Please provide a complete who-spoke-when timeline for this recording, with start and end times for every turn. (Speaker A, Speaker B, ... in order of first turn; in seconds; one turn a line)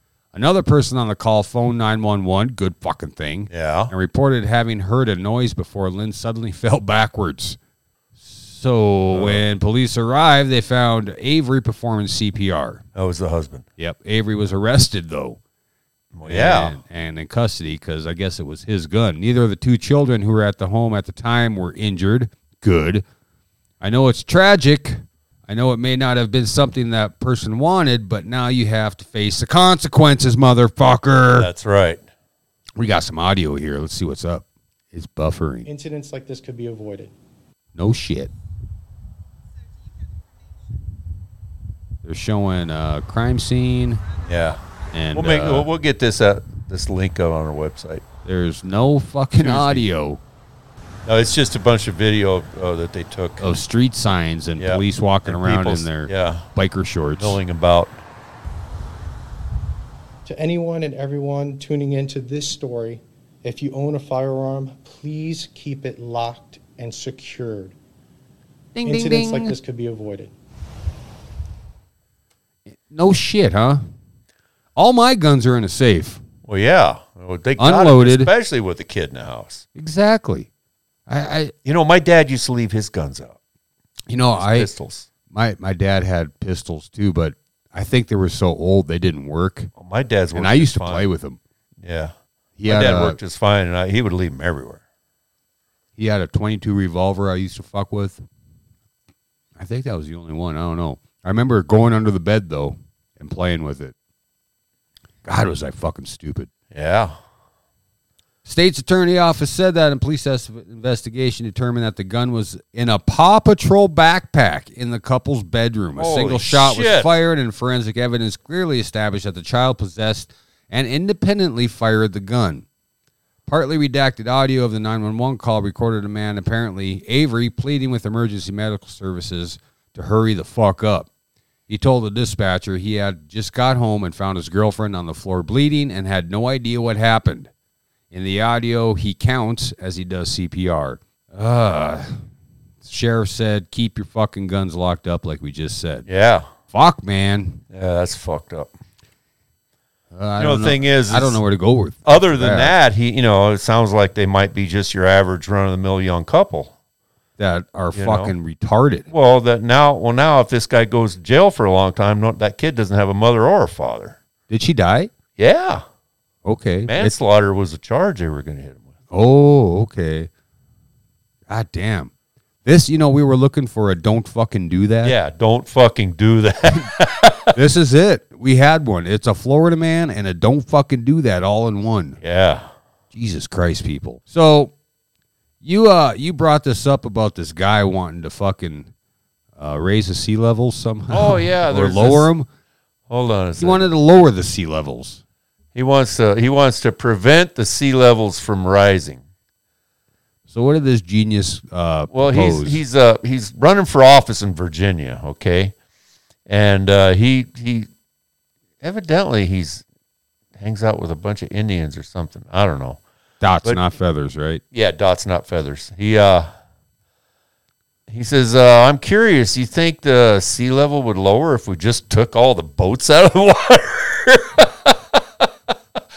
Speaker A: 0.3-7.6
Speaker B: 3.5-3.9
Speaker A: 8.2-12.8
Speaker B: 9.1-9.4
Speaker B: 12.9-13.7
Speaker A: 13.8-15.4
Speaker B: 16.1-16.8
Speaker A: 16.2-23.0
Speaker A: 23.8-31.5
Speaker B: 31.3-32.0
Speaker A: 32.8-35.7
Speaker C: 35.7-37.1
Speaker A: 37.8-38.3
Speaker A: 42.0-44.0
Speaker B: 44.2-48.0
Speaker A: 44.9-45.7
Speaker A: 48.2-50.2
Speaker B: 49.4-49.9
Speaker B: 51.0-53.5
Speaker A: 53.4-57.4
Speaker B: 54.6-56.5
Speaker B: 57.2-58.0
Speaker C: 60.3-67.8
Speaker A: 68.8-69.6
Speaker C: 68.8-70.3
Speaker A: 72.7-73.9
Speaker A: 74.8-76.2
Speaker B: 76.5-79.6
Speaker A: 77.6-78.3
Speaker A: 79.8-80.5
Speaker A: 81.1-81.5
Speaker B: 81.7-83.4
Speaker A: 84.1-84.7
Speaker B: 84.3-85.1
Speaker A: 85.3-89.7
Speaker B: 89.8-91.1
Speaker A: 90.3-91.4
Speaker B: 91.8-92.1
Speaker A: 92.6-93.2
Speaker B: 92.7-94.8
Speaker A: 96.0-98.2
Speaker A: 99.6-103.9
Speaker A: 105.2-106.5
Speaker B: 106.7-107.2
Speaker A: 108.5-122.7
Speaker B: 116.0-117.1
Speaker A: 123.5-131.1
Speaker A: 131.7-137.5
Speaker A: 138.1-142.2
Speaker A: 142.8-146.1
Speaker B: 146.1-146.5
Speaker A: 146.7-147.6
Speaker B: 147.7-148.7
Speaker A: 150.1-152.8
Speaker B: 150.4-151.4
Speaker B: 152.1-156.7
Speaker A: 157.4-159.1
Speaker B: 157.9-158.3
Speaker B: 159.1-164.2
Speaker A: 164.5-165.1
Speaker B: 165.4-165.8
Speaker A: 166.4-167.2
Speaker B: 166.9-168.9
Speaker A: 169.1-170.3
Speaker A: 171.5-172.1
Speaker A: 172.7-175.2
Speaker B: 175.0-177.6
Speaker A: 177.6-182.2
Speaker B: 182.2-182.7
Speaker A: 183.1-184.7
Speaker A: 185.6-188.9
Speaker A: 189.6-192.5
Speaker B: 191.1-192.3
Speaker B: 193.1-193.9
Speaker A: 193.6-195.2
Speaker B: 195.8-199.2
Speaker A: 200.5-202.8
Speaker B: 202.1-205.8
Speaker B: 206.5-207.9
Speaker B: 208.8-209.8
Speaker B: 210.6-213.0
Speaker A: 213.4-214.6
Speaker B: 214.7-216.5
Speaker B: 218.1-225.5